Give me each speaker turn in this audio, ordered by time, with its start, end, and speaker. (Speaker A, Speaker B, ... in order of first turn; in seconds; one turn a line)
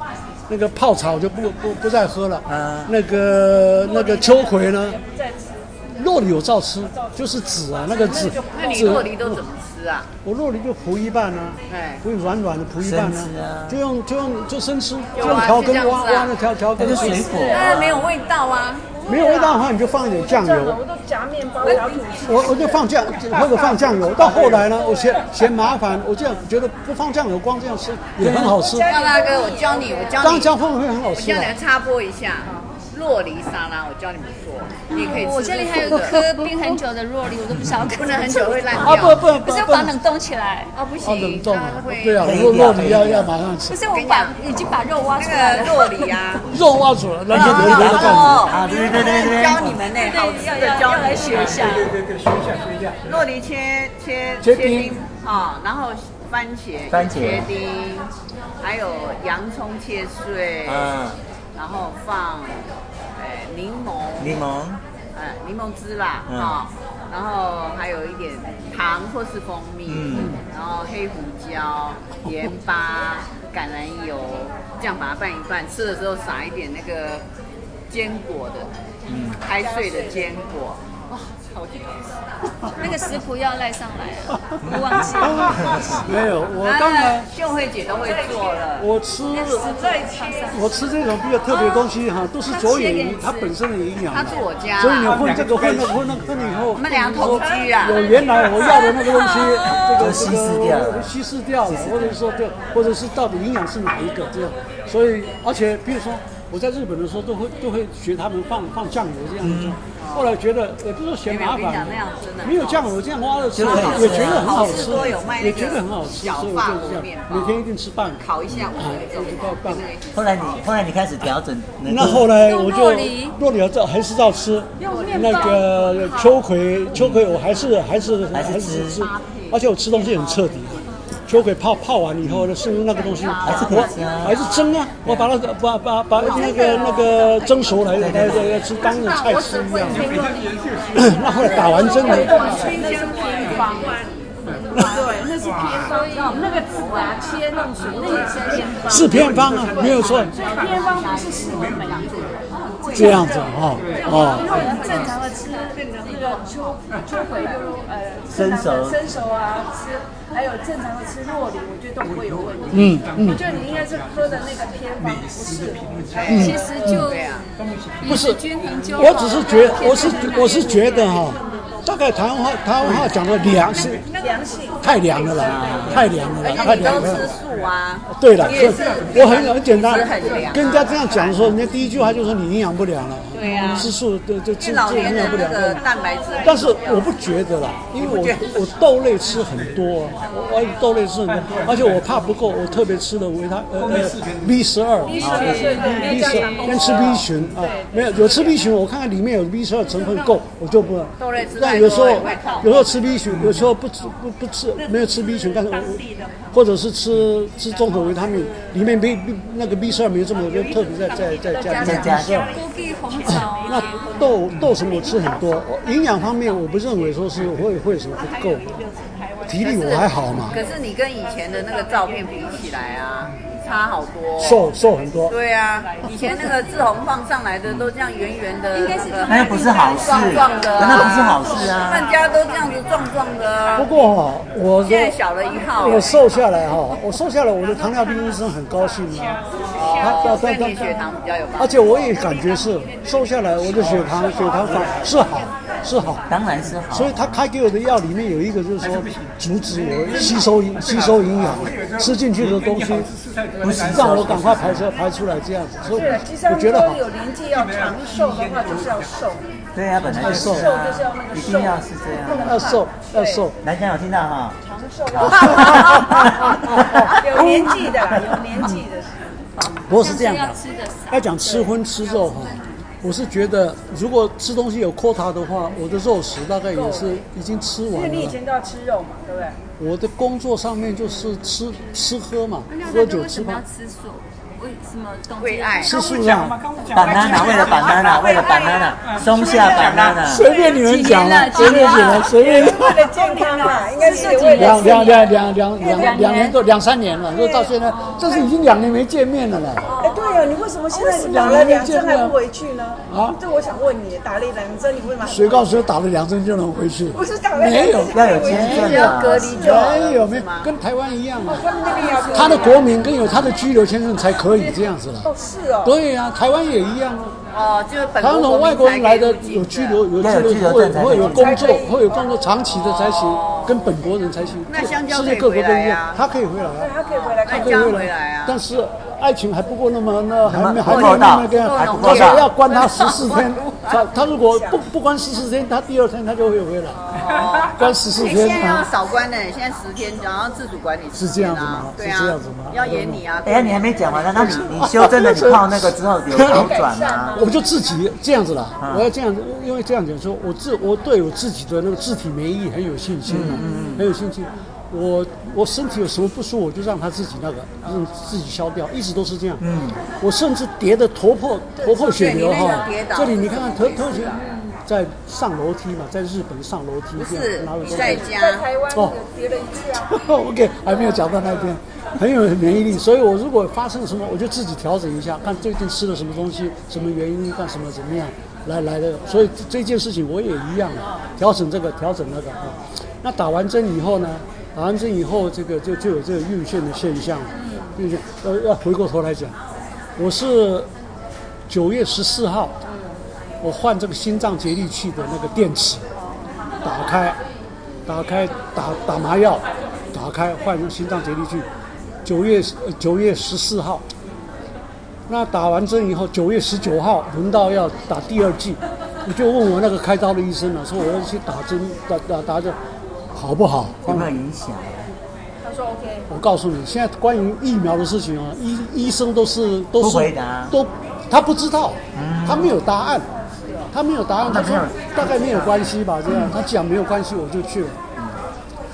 Speaker A: 0.5-5.0
Speaker B: 2.5-2.9
Speaker C: 3.6-5.7
Speaker A: 5.9-9.4
Speaker C: 6.9-9.1
Speaker D: 8.4-10.1
Speaker A: 10.2-17.4
Speaker D: 11.7-12.0
Speaker B: 12.8-13.8
Speaker D: 15.2-16.4
Speaker B: 16.8-18.1
Speaker C: 16.9-17.7
Speaker D: 17.4-18.9
Speaker C: 19.1-25.4
Speaker A: 19.1-20.8
Speaker A: 22.2-28.9
Speaker B: 28.2-28.5
Speaker C: 28.4-30.2
Speaker D: 28.8-30.5
Speaker A: 30.2-31.5
Speaker D: 31.1-36.3
Speaker E: 34.9-40.7
Speaker D: 37.9-39.4
Speaker A: 38.8-39.9
Speaker D: 40.7-42.4
Speaker A: 41.0-43.8
Speaker B: 42.2-43.3
Speaker E: 43.7-46.2
Speaker D: 43.9-44.4
Speaker D: 45.1-46.5
Speaker A: 46.5-48.5
Speaker B: 47.3-49.8
Speaker D: 47.3-51.6
Speaker E: 48.6-49.1
Speaker E: 49.9-51.9
Speaker F: 51.2-53.2
Speaker D: 53.0-60.9
Speaker A: 54.4-54.9
Speaker B: 56.9-57.5
Speaker B: 60.6-61.2
Speaker D: 61.5-64.4
Speaker B: 64.2-64.8
Speaker D: 65.1-77.2
Speaker B: 66.3-66.6
Speaker B: 69.9-70.4
Speaker A: 70.1-70.4
Speaker D: 77.9-78.7
Speaker B: 79.1-79.4
Speaker D: 79.4-82.1
Speaker C: 79.5-80.3
Speaker E: 82.8-86.0
Speaker B: 84.6-85.9
Speaker A: 85.9-87.3
Speaker D: 86.6-88.9
Speaker C: 88.1-88.5
Speaker A: 88.8-89.7
Speaker E: 89.3-90.8
Speaker C: 89.6-90.8
Speaker A: 90.5-118.2
Speaker E: 91.5-91.9
Speaker E: 92.4-93.5
Speaker D: 94.1-95.2
Speaker F: 95.0-96.7
Speaker D: 96.7-98.7
Speaker E: 98.7-99.8
Speaker B: 99.7-101.1
Speaker B: 101.7-102.2
Speaker B: 109.4-109.8
Speaker D: 110.0-110.3
Speaker D: 111.2-112.9
Speaker B: 113.5-115.3
Speaker D: 113.6-117.7
Speaker D: 118.2-120.6
Speaker A: 118.8-119.8
Speaker B: 120.1-122.3
Speaker A: 121.8-140.2
Speaker E: 122.4-123.3
Speaker C: 124.8-126.4
Speaker D: 124.8-125.2
Speaker B: 126.9-127.2
Speaker B: 128.3-129.1
Speaker D: 129.0-130.5
Speaker B: 132.2-132.5
Speaker D: 132.9-134.6
Speaker B: 133.4-134.4
Speaker B: 135.0-135.3
Speaker E: 136.2-137.9
Speaker C: 136.2-137.1
Speaker B: 137.9-138.6
Speaker E: 138.6-146.6
Speaker C: 139.6-140.4
Speaker F: 139.8-142.8
Speaker A: 140.9-142.4
Speaker C: 141.2-144.0
Speaker D: 142.1-143.9
Speaker F: 144.4-146.0
Speaker C: 144.8-165.8
Speaker D: 146.1-147.4
Speaker E: 147.8-148.7
Speaker F: 148.4-152.4
Speaker A: 148.9-150.3
Speaker D: 150.0-152.8
Speaker E: 152.7-156.4
Speaker A: 152.9-154.5
Speaker F: 153.8-155.1
Speaker B: 158.3-159.1
Speaker F: 162.0-166.9
Speaker A: 162.7-163.4
Speaker D: 166.1-167.5
Speaker E: 166.2-167.3
Speaker A: 166.3-167.0
Speaker F: 167.6-169.0
Speaker E: 168.0-171.4
Speaker A: 168.0-168.4
Speaker A: 168.9-174.0
Speaker F: 172.8-173.8
Speaker C: 173.7-175.9
Speaker A: 174.8-177.3
Speaker B: 175.4-176.1
Speaker D: 176.4-181.7
Speaker A: 178.1-185.8
Speaker F: 178.5-180.7
Speaker D: 183.3-183.9
Speaker D: 184.6-187.2
Speaker A: 186.4-212.6
Speaker F: 188.0-188.7
Speaker F: 189.2-190.1
Speaker F: 191.2-192.3
Speaker F: 193.8-194.7
Speaker C: 195.0-198.6
Speaker B: 195.2-195.6
Speaker E: 195.3-196.9
Speaker F: 195.7-196.1
Speaker D: 201.2-203.2
Speaker F: 203.3-203.6
Speaker E: 205.5-206.3
Speaker E: 210.8-211.2
Speaker C: 211.5-212.2
Speaker B: 211.8-212.6
Speaker E: 212.5-214.4
Speaker A: 213.2-218.7
Speaker A: 219.4-220.6
Speaker D: 219.5-224.7
Speaker A: 224.4-225.3
Speaker D: 225.3-233.9
Speaker E: 228.7-232.8
Speaker B: 229.2-232.1
Speaker E: 233.6-233.9
Speaker A: 233.7-235.2
Speaker D: 234.8-236.2
Speaker A: 235.7-241.0
Speaker D: 239.7-242.2
Speaker A: 241.6-246.2
Speaker F: 243.7-245.4
Speaker B: 246.3-247.4
Speaker A: 246.9-253.1
Speaker F: 248.8-254.9
Speaker B: 253.6-254.9
Speaker A: 253.7-257.0
Speaker F: 255.8-256.2
Speaker C: 255.8-259.5
Speaker F: 257.5-259.4
Speaker B: 259.7-262.8
Speaker F: 260.0-260.4
Speaker C: 260.1-263.5
Speaker A: 260.2-260.6
Speaker A: 262.4-263.6
Speaker B: 263.6-264.6
Speaker C: 264.6-269.2
Speaker B: 265.1-266.2
Speaker A: 265.2-268.7
Speaker A: 269.9-278.4
Speaker E: 269.9-272.7
Speaker C: 271.4-271.7
Speaker C: 276.7-277.2
Speaker C: 277.9-279.6
Speaker A: 279.8-283.6
Speaker E: 282.7-285.9
Speaker D: 285.4-286.0
Speaker A: 285.8-286.6
Speaker F: 285.9-288.4
Speaker B: 286.9-290.5
Speaker E: 287.2-295.3
Speaker F: 289.0-290.3
Speaker A: 290.2-293.1
Speaker C: 291.6-296.3
Speaker A: 294.5-299.9
Speaker E: 295.8-296.6
Speaker C: 297.3-298.4
Speaker E: 297.9-298.4
Speaker E: 299.9-300.4
Speaker C: 299.9-305.8
Speaker A: 300.9-302.4
Speaker A: 303.1-303.4
Speaker A: 305.2-311.7
Speaker C: 307.1-310.0
Speaker B: 308.1-309.5
Speaker D: 308.8-310.7
Speaker C: 311.4-313.5
Speaker A: 312.3-315.3
Speaker C: 314.4-316.0
Speaker A: 315.8-317.4
Speaker D: 317.5-320.1
Speaker A: 318.2-326.9
Speaker B: 320.1-321.8
Speaker C: 321.1-322.3
Speaker D: 322.7-323.9
Speaker D: 324.7-326.2
Speaker C: 326.7-328.0
Speaker D: 327.1-328.6
Speaker A: 327.5-337.1
Speaker B: 330.4-332.5
Speaker D: 330.8-333.4
Speaker C: 332.6-334.9
Speaker C: 337.0-337.2
Speaker D: 337.2-344.6
Speaker A: 337.7-338.9
Speaker A: 341.1-343.2
Speaker B: 343.4-347.4
Speaker A: 344.3-346.7
Speaker C: 346.4-347.7
Speaker A: 347.3-359.6
Speaker B: 348.8-349.1
Speaker B: 353.2-354.0
Speaker B: 359.6-360.0
Speaker A: 360.2-368.3
Speaker D: 362.0-364.4
Speaker D: 367.2-368.7
Speaker C: 367.8-370.2
Speaker A: 370.0-389.6
Speaker A: 390.2-390.9
Speaker A: 391.7-392.8
Speaker A: 393.6-396.0
Speaker A: 396.8-397.4
Speaker A: 398.1-401.7
Speaker A: 402.2-404.0
Speaker A: 405.3-412.8
Speaker A: 413.3-414.3
Speaker B: 414.0-415.1
Speaker C: 415.6-416.3
Speaker A: 416.3-423.3
Speaker B: 420.0-420.8
Speaker B: 422.1-422.8
Speaker A: 423.9-428.0
Speaker B: 424.4-425.9